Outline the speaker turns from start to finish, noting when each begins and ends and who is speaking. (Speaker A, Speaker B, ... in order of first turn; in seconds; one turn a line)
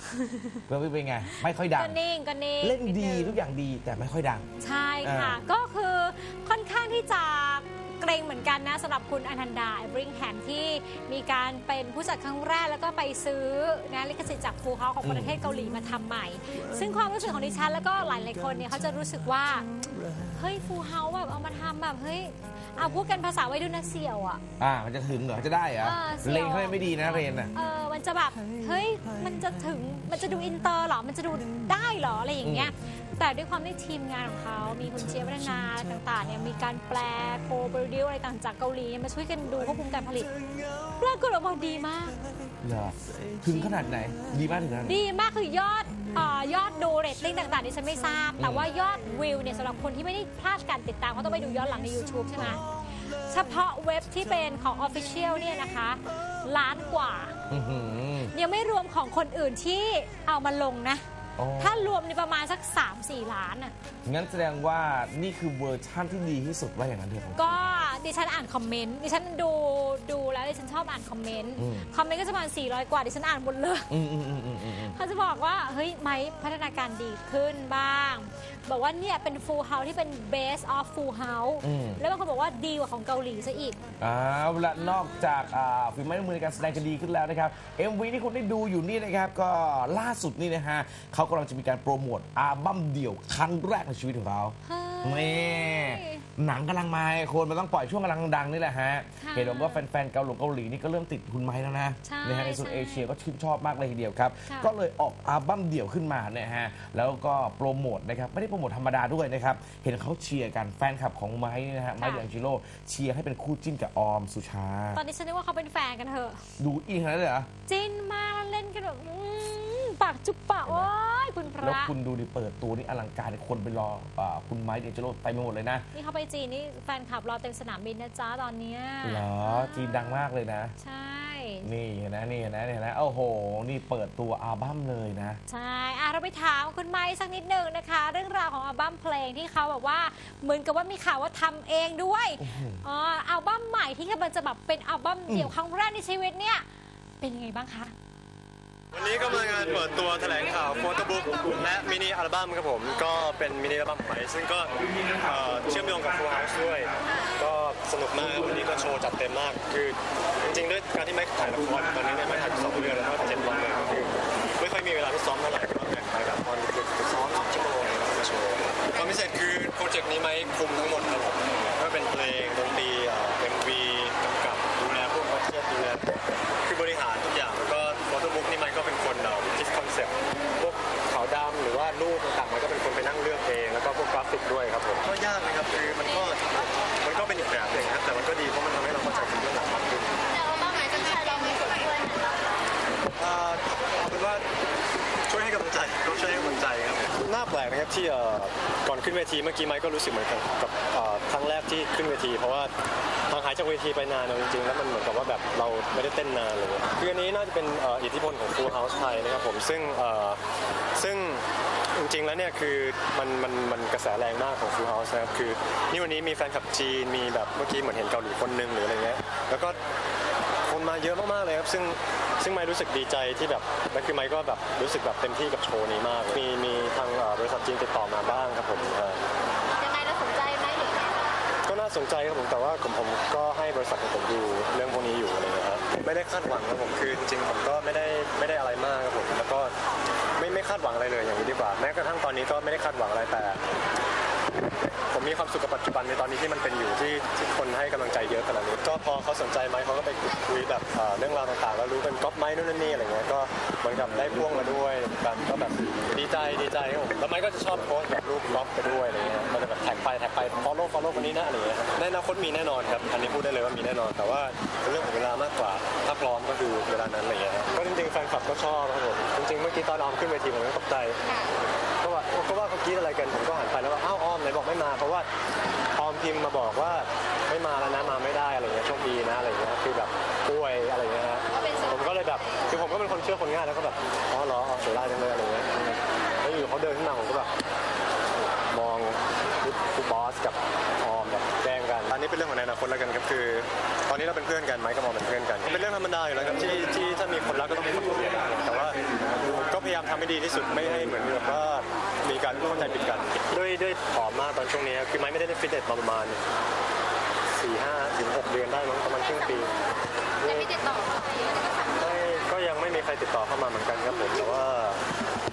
Speaker A: 0.1-0.6
Speaker B: 0.7-2.0
Speaker A: 1.3-3.4
Speaker B: 2.6-4.5
Speaker A: 4.6-24.4
Speaker B: 5.0-5.4
Speaker B: 15.0-15.4
Speaker B: 24.6-27.5
Speaker A: 25.8-42.2
Speaker B: 32.4-32.7
Speaker B: 42.6-45.0
Speaker A: 44.8-57.4
Speaker B: 48.4-48.7
Speaker B: 52.4-52.6
Speaker B: 57.5-58.3
Speaker A: 58.3-61.0
Speaker B: 61.4-62.0
Speaker A: 61.6-63.7
Speaker B: 64.0-67.7
Speaker A: 67.4-73.9
Speaker B: 71.6-71.9
Speaker B: 73.9-75.0
Speaker A: 74.6-83.8
Speaker B: 81.6-82.0
Speaker B: 84.0-115.0
Speaker A: 94.6-96.2
Speaker A: 99.2-99.8
Speaker A: 102.0-103.1
Speaker A: 112.0-112.2
Speaker A: 114.9-116.4
Speaker B: 116.6-117.5
Speaker A: 117.7-121.9
Speaker B: 120.7-120.9
Speaker B: 121.6-125.8
Speaker A: 125.9-130.2
Speaker B: 129.0-130.7
Speaker A: 130.8-131.7
Speaker B: 131.6-135.4
Speaker A: 135.5-146.7
Speaker B: 142.4-142.8
Speaker A: 147.2-147.9
Speaker C: 148.9-190.2
Speaker D: 190.4-192.4
Speaker C: 193.2-194.4
Speaker C: 195.3-202.7
Speaker C: 203.3-210.4
Speaker C: 210.9-219.8
Speaker C: 220.7-229.2
Speaker D: 229.8-231.1
Speaker C: 231.6-239.7
Speaker C: 240.4-243.6
Speaker C: 245.1-271.2
Speaker C: 272.0-275.3
Speaker C: 275.9-287.5
Speaker C: 288.7-306.4
Speaker C: 307.6-309.7
Speaker C: 310.4-311.0
Speaker C: 311.8-315.0